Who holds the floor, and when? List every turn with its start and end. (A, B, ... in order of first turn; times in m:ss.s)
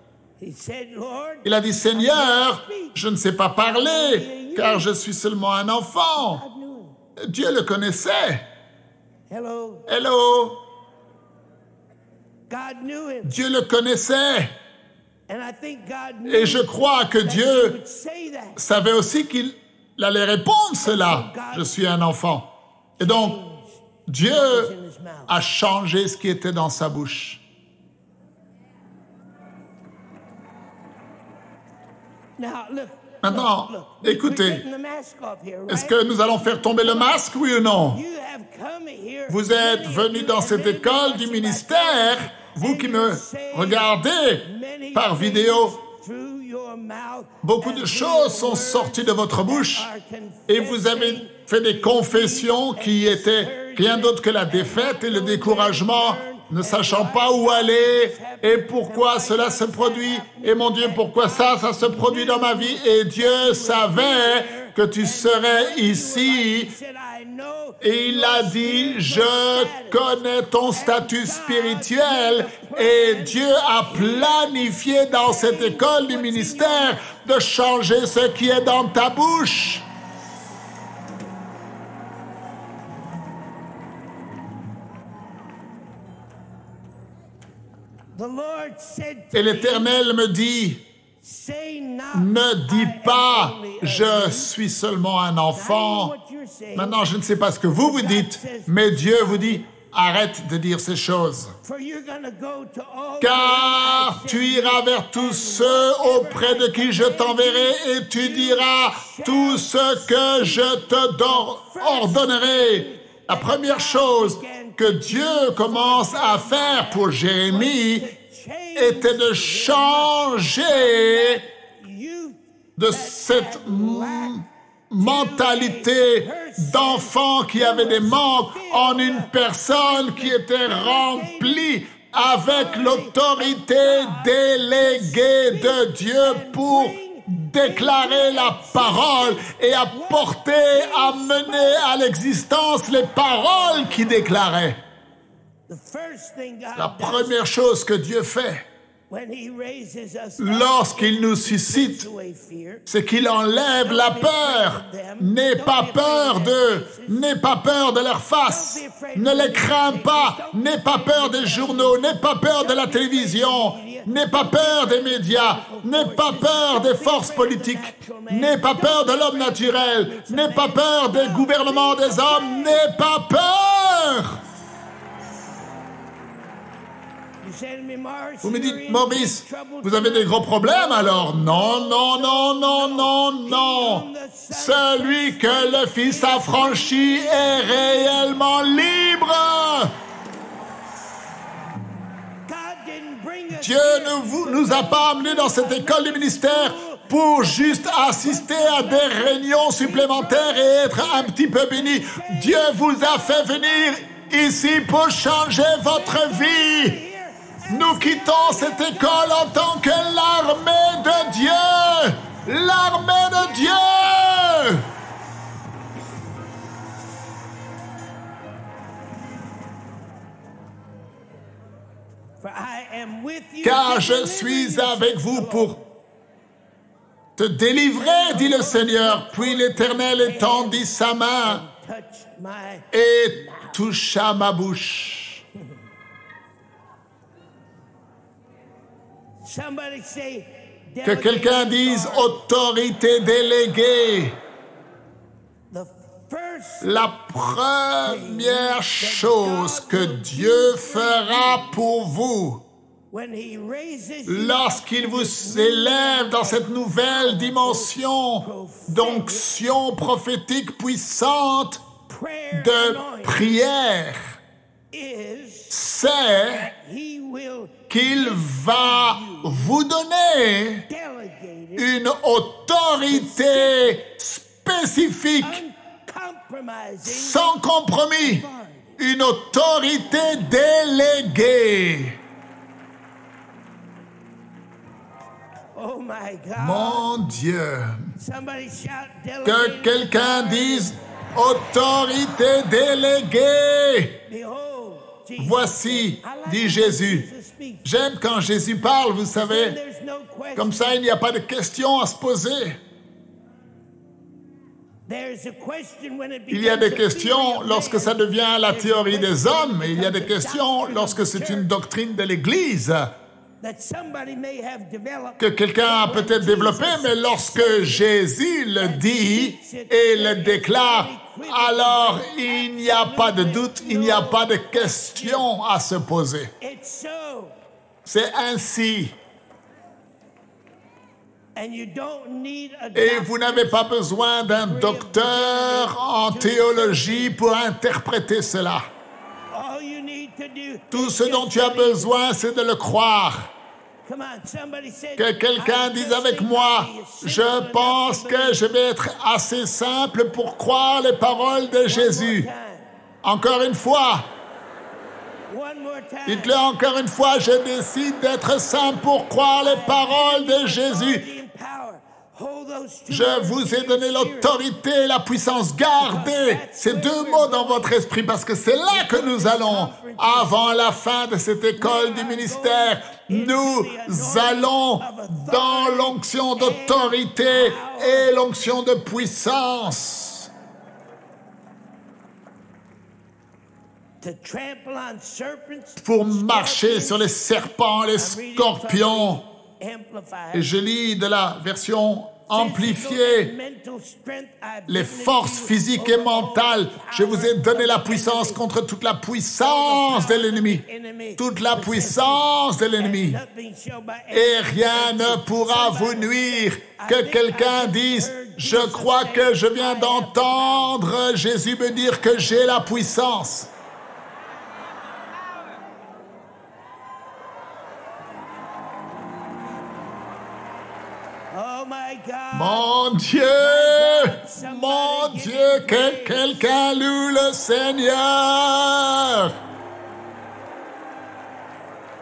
0:00.4-0:03.0 A
0:01.4-0:06.4 B
0:03.6-0:04.9 A
0:06.1-0:07.0 A
0:07.2-0:08.4 B
0:09.3-0:09.9 A
0:09.9-0:10.6 B
0:12.5-0:13.4 A
0:13.2-0:14.5 B
0:15.3-0:16.7 A
0:16.2-0:17.8 B
0:17.2-0:18.6 A
0:18.6-0:22.5 B
0:20.8-0:21.8 A
0:23.0-0:25.4 A
0:23.0-0:23.4 B
0:24.1-0:24.7 B
0:25.3-0:27.4 B
0:32.4-0:37.3 A
0:33.2-0:34.6 B
0:35.7-0:38.0 B
0:37.9-1:17.0 A
0:39.3-0:45.8 B
0:47.4-0:49.9 B
0:50.5-1:06.7 B
1:07.8-1:19.8 B
1:28.1-1:30.0 A
1:29.3-1:30.8 B
1:31.2-1:34.5 A
1:32.1-1:36.1 B
1:35.5-1:39.6 A
1:36.7-1:41.5 B
1:41.6-2:04.4 A
1:43.2-1:58.1 B
1:58.8-2:01.4 B
2:02.8-2:24.8 B
2:05.0-2:22.0 A
2:23.6-2:24.4 A
2:25.7-2:27.4 A
2:26.8-2:28.6 B
2:29.1-2:32.8 A
2:30.4-2:32.1 B
2:32.9-2:54.4 B
2:33.6-2:37.3 A
2:38.4-2:52.9 A
2:57.4-3:08.4 A
2:58.4-3:09.9 B
3:12.4-3:24.0 A
3:13.5-3:27.0 B
3:25.6-3:30.3 A
3:27.7-3:34.8 B
3:30.8-3:31.8 A
3:33.3-3:34.2 A
3:42.4-3:45.8 A
3:43.6-3:45.8 B
3:47.4-3:51.6 B
3:48.0-3:50.9 A
3:51.4-3:53.8 A
3:52.9-3:55.4 B
3:59.4-4:02.4 A
4:01.0-4:04.4 B
4:05.7-4:06.9 A
4:06.8-4:12.6 B
4:08.0-4:11.8 A
4:13.1-4:19.5 A
4:14.2-4:21.8 B
4:22.0-4:23.7 A
4:22.5-4:24.4 B
4:24.9-4:25.8 A
4:25.7-4:26.7 B
4:26.5-4:29.8 A
4:27.9-4:30.8 B
4:30.9-4:31.9 A
4:31.8-4:35.6 B
4:33.0-4:34.0 A
4:35.4-4:37.6 A
4:37.0-4:38.4 B
4:38.2-4:39.0 A
4:39.0-4:42.2 B
4:45.7-4:47.1 A
4:46.6-4:48.1 B
4:48.2-4:50.9 A
4:49.4-4:54.2 B
4:54.2-4:57.8 A
4:55.4-4:57.3 B
4:57.8-4:59.8 B
4:59.3-5:01.0 A
5:00.6-5:02.8 B
5:05.1-5:11.7 A
5:06.5-5:13.1 B
5:13.6-5:18.1 A
5:15.4-5:26.5 B
5:18.8-5:25.5 A
5:26.6-5:27.5 A
5:28.0-5:29.1 B
5:31.6-5:33.9 A
5:32.9-5:38.9 B
5:34.4-5:37.4 A
5:39.5-5:42.2 A
5:40.9-5:43.5 B
5:44.0-5:48.7 A
5:45.2-5:52.5 B
5:51.8-5:52.9 A
5:53.2-5:54.3 B
5:55.5-5:56.6 A
5:56.2-6:01.2 B
5:59.6-6:04.7 A
6:03.1-6:20.5 B
6:06.0-6:08.0 A
6:08.8-6:10.7 A
6:11.8-6:18.4 A
6:24.2-6:30.7 A
6:26.0-6:29.4 B
6:30.5-6:33.5 B
6:32.5-6:38.6 A
6:34.9-6:40.8 B
6:39.6-6:51.0 A
6:41.4-6:43.4 B
6:44.3-6:53.7 B
7:01.5-7:06.7 A
7:02.5-7:09.5 B